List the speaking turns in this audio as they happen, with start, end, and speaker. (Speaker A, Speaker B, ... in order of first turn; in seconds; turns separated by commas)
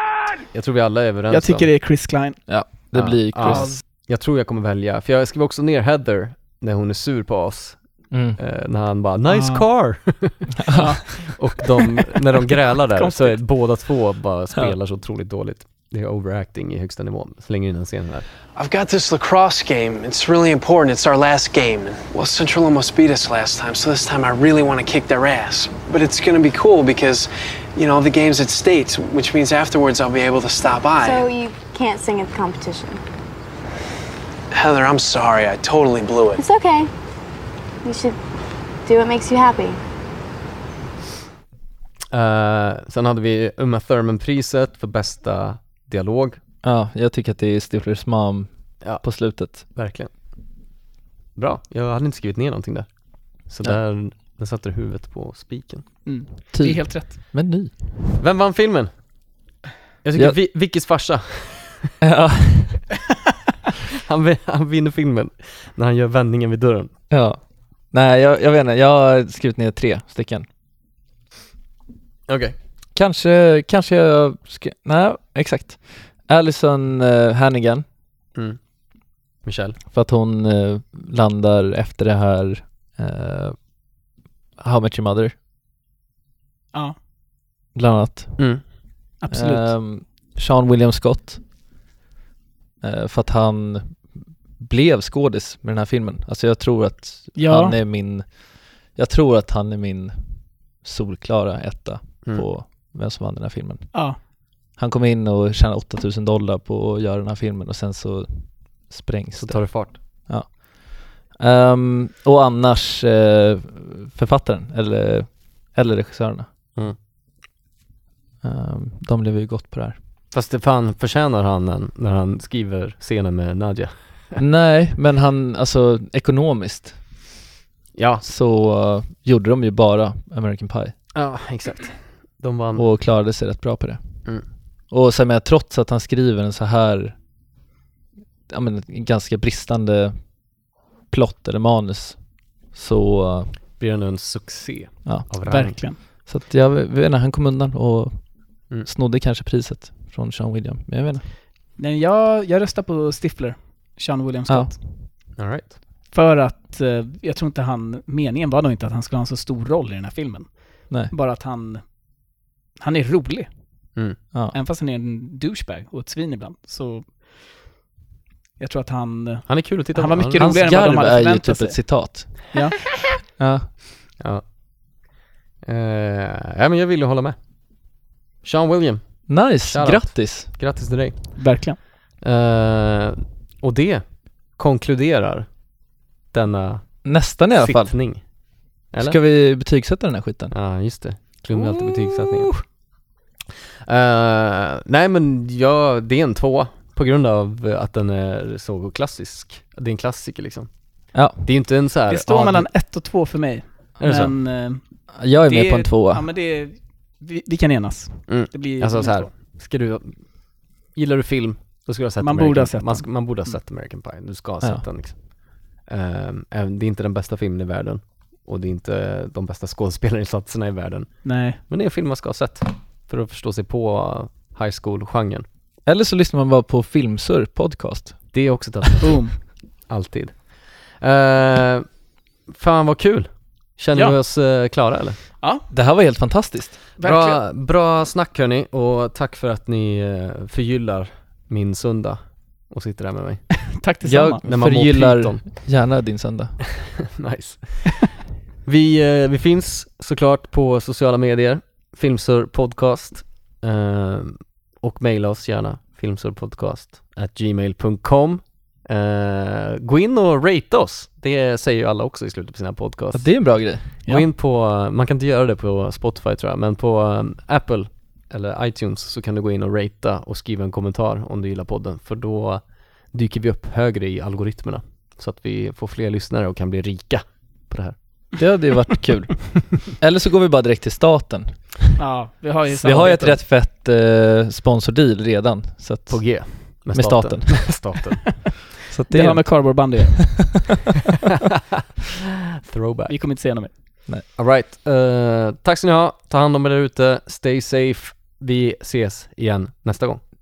Speaker A: 0.5-1.7, Speaker B: 1.3-2.4, Speaker C: 2.5-3.8, Speaker A: 2.9-18.3, Speaker B: 3.4-3.8, Speaker C: 8.1-8.4, Speaker B: 9.3-9.7, Speaker B: 10.7-11.6, Speaker B: 12.9-13.5, Speaker D: 18.5-31.3, Speaker E: 31.0-33.0, Speaker D: 34.5-36.4, Speaker E: 36.4-36.9, Speaker E: 37.9-38.1, Speaker E: 38.9-39.8, Speaker A: 42.1-46.4, Speaker C: 46.6-49.6, Speaker A: 48.8-50.1, Speaker A: 51.4-55.9, Speaker B: 56.0-57.2, Speaker C: 56.5-57.7, Speaker A: 58.2-58.9, Speaker A: 60.0-61.9, Speaker C: 62.0-62.9, Speaker A: 64.1-66.9, Speaker C: 67.1-70.5, Speaker A: 72.3-72.5, Speaker C: 73.0-77.8, Speaker A: 79.4-79.8, Speaker C: 79.9-83.6, Speaker C: 84.6-85.3, Speaker C: 87.7-88.5, Speaker A: 88.4-88.6, Speaker B: 89.2-89.7, Speaker C: 89.3-91.4, Speaker C: 92.8-94.0, Speaker C: 94.6-104.2, Speaker B: 97.4-97.8, Speaker C: 104.8-116.5, Speaker A: 109.3-110.0, Speaker C: 118.4-120.0, Speaker A: 120.3-124.4, Speaker C: 124.4-127.2, Speaker A: 128.0-128.2, Speaker C: 128.2-131.0, Speaker A: 131.1-132.9, Speaker C: 132.8-134.0, Speaker C: 134.9-137.2, Speaker C: 138.5-140.4, Speaker C: 141.1-143.6, Speaker A: 143.8-145.8, Speaker C: 145.1-151.3, Speaker B: 145.4-146.0, Speaker B: 151.8-154.8, Speaker C: 154.5-154.8, Speaker A: 155.4-155.7, Speaker B: 156.1-162.1, Speaker B: 162.8-163.5, Speaker B: 164.5-167.7, Speaker B: 168.6-173.0, Speaker A: 169.5-170.5, Speaker C: 170.4-172.5, Speaker C: 173.4-173.7, Speaker A: 174.2-174.4, Speaker A: 175.6-177.4, Speaker A: 178.4-185.6, Speaker C: 179.3-180.5, Speaker B: 181.4-181.8, Speaker A: 186.3-188.3, Speaker C: 187.0-188.0, Speaker A: 188.9-189.2, Speaker C: 189.0-190.6, Speaker A: 190.5-192.5, Speaker B: 192.2-192.5, Speaker A: 193.9-200.7, Speaker C: 201.1-202.7, Speaker A: 201.4-202.2, Speaker B: 202.1-209.3, Speaker A: 204.0-204.3, Speaker C: 205.2-206.3, Speaker A: 208.3-225.5, Speaker B: 212.2-213.6, Speaker B: 221.2-221.6, Speaker C: 225.9-228.5, Speaker A: 228.3-231.9, Speaker B: 229.0-229.4, Speaker A: 232.5-235.2, Speaker B: 235.4-235.7, Speaker C: 235.7-236.8, Speaker B: 237.0-237.4, Speaker A: 237.0-243.6, Speaker B: 243.7-244.4, Speaker C: 244.1-246.6, Speaker A: 244.4-245.6, Speaker A: 247.2-248.1, Speaker A: 248.7-277.9, Speaker C: 263.1-263.9, Speaker C: 278.4-281.7, Speaker B: 282.0-283.4, Speaker C: 282.7-288.0, Speaker A: 286.1-288.5, Speaker C: 288.9-290.5, Speaker B: 289.1-290.7, Speaker A: 292.7-293.1, Speaker B: 293.1-293.7, Speaker A: 294.4-300.2